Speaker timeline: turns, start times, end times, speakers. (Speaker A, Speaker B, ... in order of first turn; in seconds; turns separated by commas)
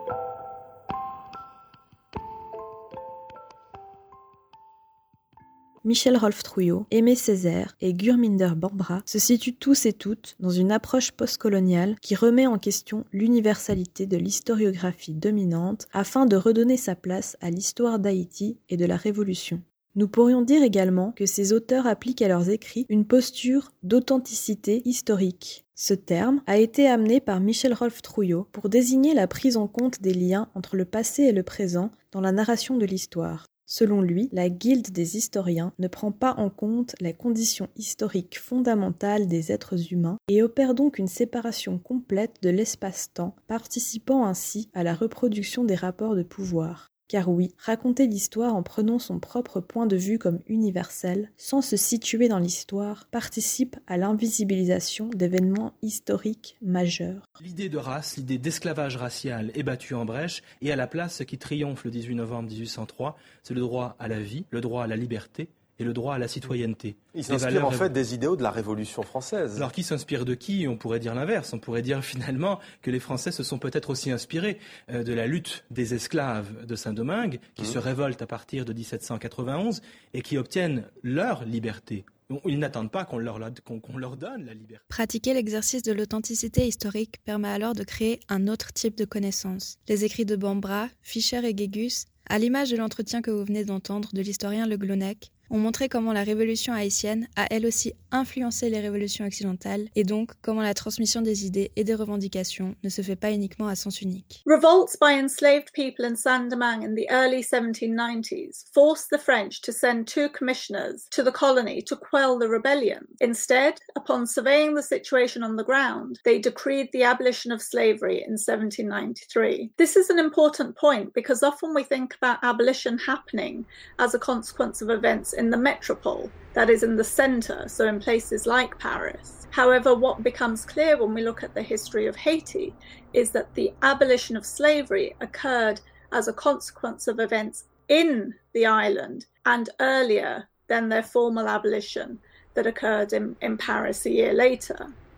Speaker A: 5.8-57.3, Speaker B: 57.4-67.9, Speaker C: 67.1-69.6, Speaker B: 69.5-84.8, Speaker D: 84.9-104.4, Speaker E: 104.5-144.9